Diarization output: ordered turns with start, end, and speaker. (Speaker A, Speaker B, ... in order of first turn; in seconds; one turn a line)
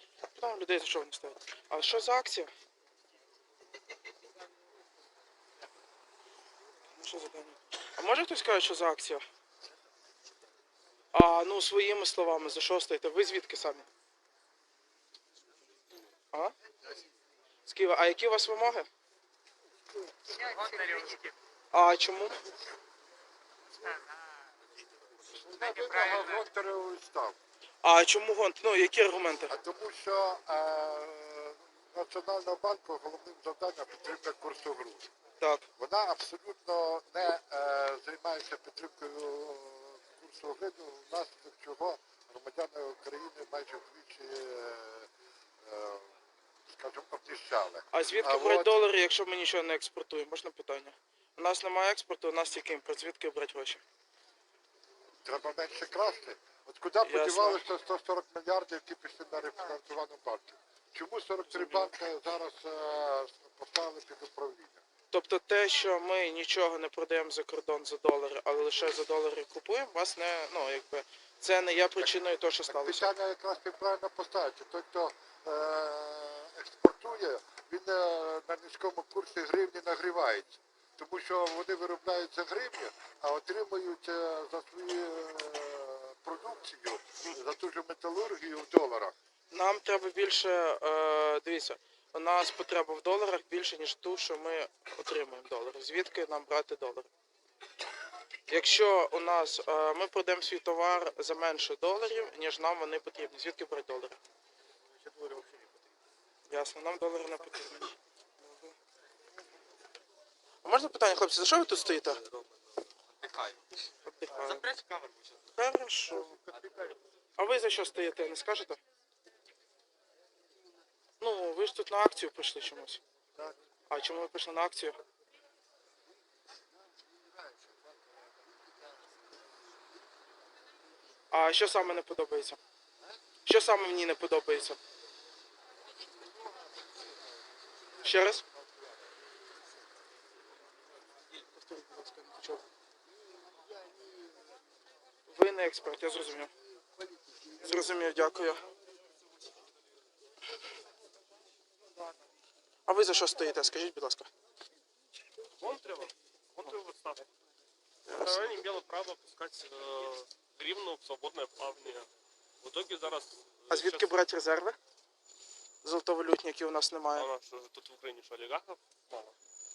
Speaker A: 0.3-2.5
Speaker A: 7.0-9.2
Speaker A: 11.1-13.9
Speaker A: 17.6-18.9
Speaker B: 20.3-21.3
Speaker A: 21.7-22.4
Speaker C: 25.3-27.4
Speaker A: 27.8-29.6
Speaker C: 29.5-35.1
Speaker A: 35.4-35.7
Speaker C: 35.8-45.1
Speaker C: 45.6-46.1
Speaker C: 46.7-48.7
Speaker A: 47.9-53.8
Speaker C: 55.2-64.8
Speaker A: 57.0-57.6
Speaker A: 65.1-73.1
Speaker C: 72.7-89.1
Speaker A: 89.5-97.1
Speaker A: 98.5-104.2
Speaker B: 105.0-105.7
Speaker A: 106.5-108.7
Speaker A: 110.6-112.2
Speaker B: 112.0-113.6
Speaker A: 114.0-114.7
Speaker B: 114.4-115.5
Speaker A: 115.5-116.4
Speaker B: 116.5-116.9
Speaker A: 117.4-118.8
Speaker A: 121.2-123.0
Speaker A: 123.9-125.0
Speaker A: 131.3-132.6
Speaker A: 133.4-134.8
Speaker A: 138.0-138.4
Speaker A: 141.3-142.6
Speaker A: 145.3-146.5
Speaker A: 147.5-148.7
Speaker A: 152.9-154.3
Speaker D: 155.6-157.3
Speaker A: 158.1-158.6
Speaker D: 158.1-162.1
Speaker D: 162.6-164.1
Speaker A: 163.7-164.8
Speaker A: 165.8-167.3
Speaker D: 167.1-169.3